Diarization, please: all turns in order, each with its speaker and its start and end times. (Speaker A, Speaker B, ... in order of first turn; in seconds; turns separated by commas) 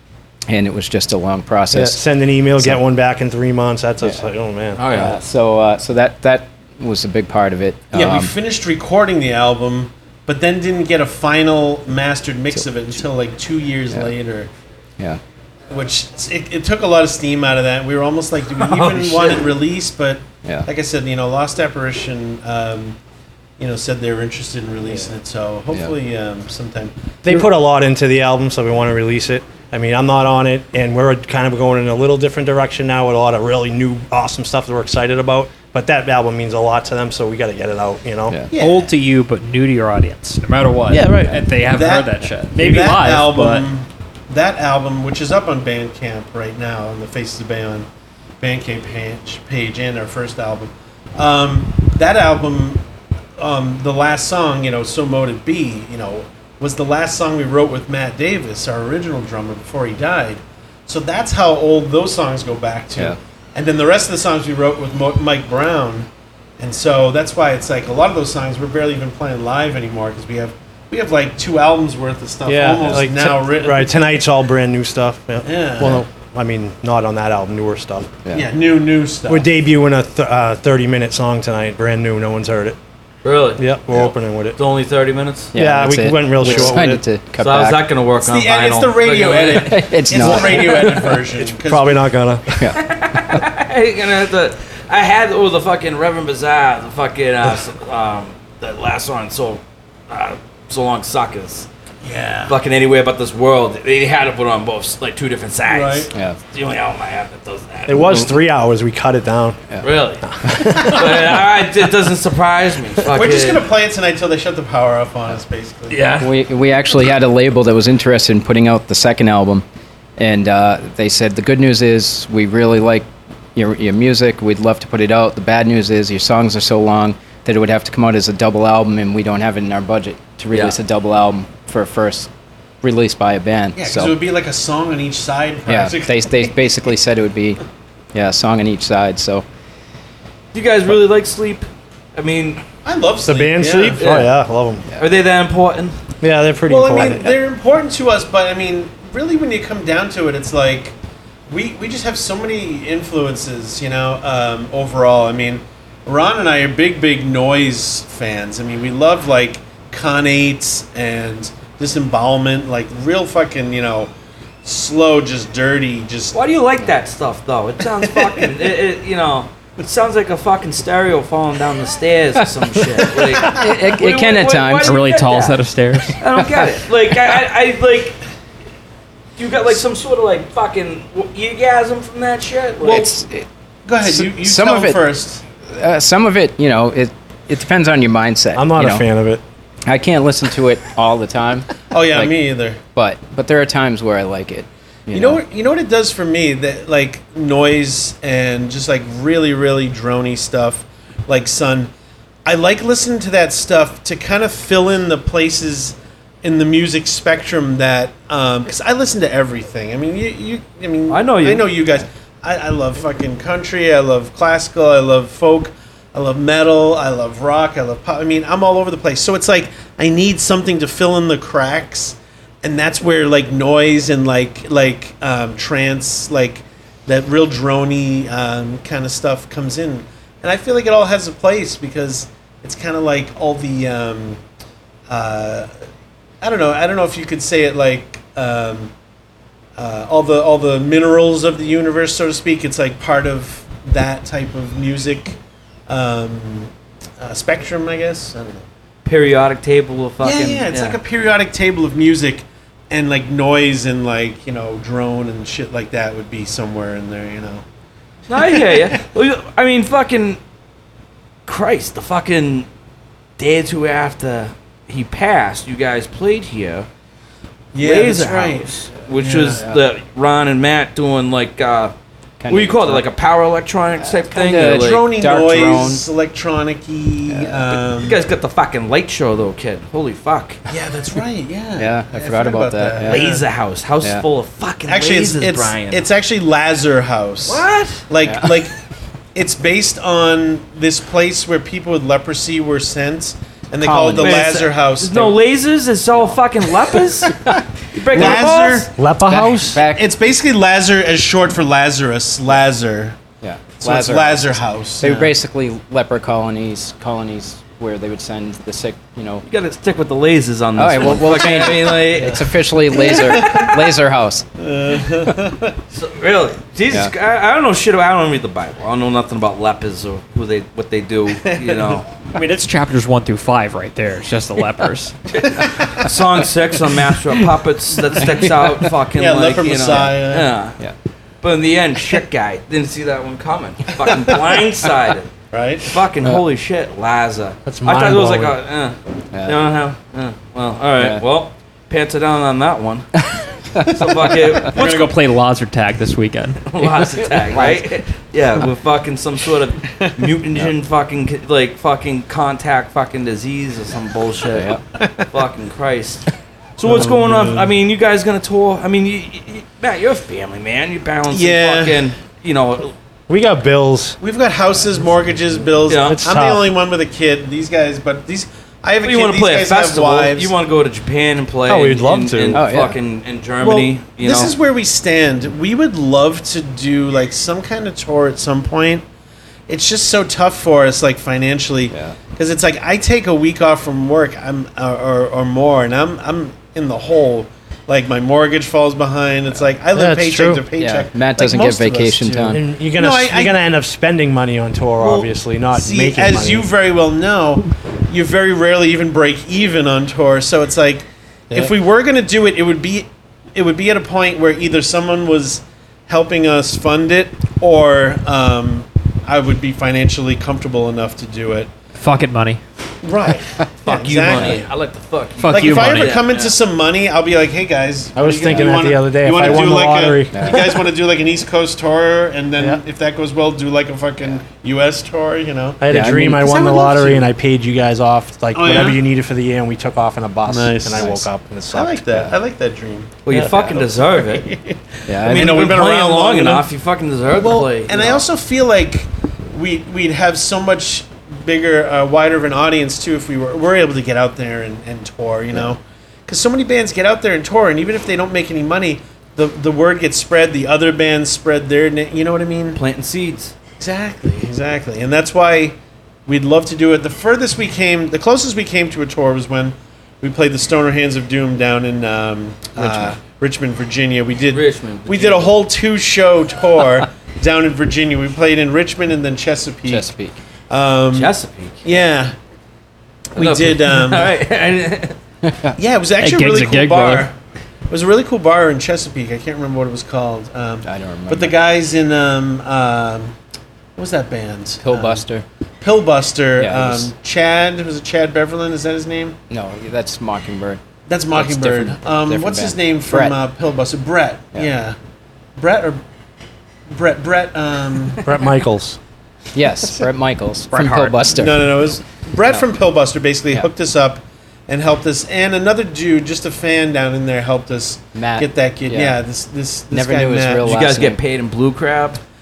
Speaker A: 0.5-2.0, Speaker B: 1.7-4.8, Speaker C: 4.8-5.2, Speaker A: 4.8-8.3, Speaker D: 7.9-14.5, Speaker D: 15.7-23.0, Speaker C: 18.6-19.5, Speaker D: 23.6-27.4, Speaker B: 27.2-38.5, Speaker D: 38.5-38.9, Speaker E: 38.5-43.6, Speaker D: 41.7-47.9, Speaker D: 48.4-52.8, Speaker D: 53.4-66.1, Speaker D: 66.6-74.0, Speaker B: 72.5-78.2, Speaker D: 75.4-76.0, Speaker D: 78.3-79.5, Speaker B: 79.3-82.8, Speaker C: 83.2-83.6, Speaker B: 83.6-84.6, Speaker C: 84.5-85.5, Speaker A: 85.5-87.8, Speaker B: 85.5-87.0, Speaker C: 86.4-86.7, Speaker C: 87.4-90.6, Speaker D: 88.2-92.0, Speaker A: 89.7-90.9, Speaker B: 90.2-92.7, Speaker C: 92.7-101.7, Speaker D: 102.0-102.5, Speaker C: 102.5-108.2, Speaker D: 105.7-106.1, Speaker B: 107.9-109.6, Speaker A: 108.0-108.3, Speaker C: 109.8-113.6, Speaker B: 110.2-111.3, Speaker A: 110.5-110.8, Speaker D: 113.1-116.1, Speaker C: 115.9-116.3, Speaker A: 116.2-119.6, Speaker A: 120.2-132.3, Speaker A: 132.8-134.1, Speaker D: 133.7-136.7, Speaker A: 135.7-137.6, Speaker A: 138.1-139.4, Speaker C: 140.5-142.6, Speaker D: 142.8-144.1, Speaker B: 143.2-144.8, Speaker C: 144.0-144.3, Speaker C: 145.0-145.9, Speaker B: 146.2-147.3, Speaker D: 146.7-150.9, Speaker D: 151.5-164.1, Speaker D: 164.6-166.3, Speaker C: 166.3-175.6, Speaker D: 168.1-168.4, Speaker A: 172.3-175.0, Speaker E: 174.8-176.2, Speaker C: 176.2-178.2, Speaker A: 176.4-176.7, Speaker C: 179.4-183.1, Speaker A: 182.8-183.5, Speaker D: 183.8-185.4, Speaker A: 184.0-185.0, Speaker A: 185.7-189.1, Speaker B: 188.6-189.4, Speaker A: 189.8-192.3, Speaker D: 191.9-192.8, Speaker A: 192.9-195.4, Speaker D: 195.1-201.9, Speaker D: 202.4-234.4, Speaker C: 211.1-211.7, Speaker D: 235.1-235.7, Speaker D: 236.4-238.9, Speaker D: 239.8-245.4, Speaker D: 245.9-248.6, Speaker C: 249.0-251.0, Speaker D: 250.2-257.6, Speaker C: 258.3-260.4, Speaker D: 258.4-259.0, Speaker C: 261.4-262.6, Speaker C: 263.4-266.9, Speaker D: 267.7-269.6, Speaker C: 267.8-271.9, Speaker A: 272.4-273.0, Speaker C: 272.5-275.0, Speaker A: 274.0-276.0, Speaker D: 274.6-278.2, Speaker A: 277.3-277.8, Speaker C: 277.9-280.6, Speaker D: 280.7-283.4, Speaker A: 281.8-283.2, Speaker C: 283.0-286.0, Speaker D: 284.9-288.7, Speaker C: 287.4-288.1, Speaker A: 288.2-288.5, Speaker D: 289.3-295.3, Speaker A: 293.8-294.5, Speaker C: 294.2-297.3, Speaker A: 297.3-297.6, Speaker C: 297.9-298.9, Speaker D: 298.1-298.9, Speaker B: 298.9-299.8, Speaker A: 299.2-300.1, Speaker D: 299.8-303.2, Speaker A: 303.4-309.4, Speaker D: 303.8-305.3, Speaker C: 309.4-312.4, Speaker A: 310.8-314.5, Speaker D: 312.9-313.8, Speaker D: 314.6-315.8, Speaker C: 315.9-322.1, Speaker D: 321.4-321.9, Speaker E: 322.3-325.2, Speaker C: 325.3-330.8, Speaker A: 328.2-328.7, Speaker D: 329.1-330.5, Speaker C: 331.4-335.3, Speaker D: 335.5-335.9, Speaker C: 335.9-343.1, Speaker B: 337.6-338.6, Speaker A: 339.3-339.6, Speaker A: 341.0-341.2, Speaker C: 343.8-345.1, Speaker E: 344.7-346.6, Speaker D: 344.7-345.1, Speaker C: 346.6-354.8, Speaker A: 346.8-347.9, Speaker A: 354.5-354.8, Speaker D: 355.0-355.2, Speaker C: 355.3-356.2, Speaker C: 356.8-362.9, Speaker B: 356.9-357.7, Speaker D: 361.3-362.1, Speaker B: 363.3-364.2, Speaker D: 364.2-370.5, Speaker C: 365.9-366.2, Speaker B: 366.0-366.7, Speaker C: 369.0-374.5, Speaker B: 371.6-372.6, Speaker A: 372.5-372.9, Speaker D: 373.6-379.0, Speaker D: 379.7-393.6, Speaker A: 381.9-382.1, Speaker B: 389.9-390.6, Speaker A: 390.8-392.6, Speaker B: 392.5-396.7, Speaker D: 395.0-411.7, Speaker E: 412.0-412.6, Speaker D: 413.0-414.7, Speaker C: 413.8-416.5, Speaker E: 415.4-416.2, Speaker D: 415.5-427.3, Speaker B: 418.1-420.7, Speaker A: 418.5-418.7, Speaker A: 420.3-420.6, Speaker B: 425.8-432.0, Speaker A: 425.9-426.5, Speaker D: 428.5-429.0, Speaker D: 430.5-436.6, Speaker C: 433.2-434.5, Speaker A: 435.1-435.7, Speaker C: 435.2-438.2, Speaker D: 437.3-452.8, Speaker C: 452.7-453.5, Speaker D: 453.8-455.7, Speaker D: 456.3-470.1, Speaker A: 462.8-463.1, Speaker C: 464.5-465.5, Speaker A: 469.9-470.4, Speaker D: 470.7-471.3, Speaker C: 471.1-471.8, Speaker D: 471.8-472.3, Speaker D: 473.4-474.4, Speaker C: 473.4-475.2, Speaker A: 475.4-475.7, Speaker D: 475.8-477.3, Speaker E: 476.2-477.3, Speaker D: 477.9-483.3, Speaker A: 480.8-481.6, Speaker D: 484.0-485.2, Speaker A: 484.8-485.4, Speaker D: 485.8-489.4, Speaker A: 486.6-487.1, Speaker A: 489.5-490.8, Speaker D: 491.1-494.9, Speaker A: 491.3-493.4, Speaker D: 495.6-496.0, Speaker D: 496.9-498.2, Speaker B: 498.2-499.0, Speaker A: 499.5-501.7, Speaker E: 500.7-501.2, Speaker D: 501.3-510.7, Speaker A: 508.1-509.2, Speaker A: 509.9-511.2, Speaker C: 510.6-512.2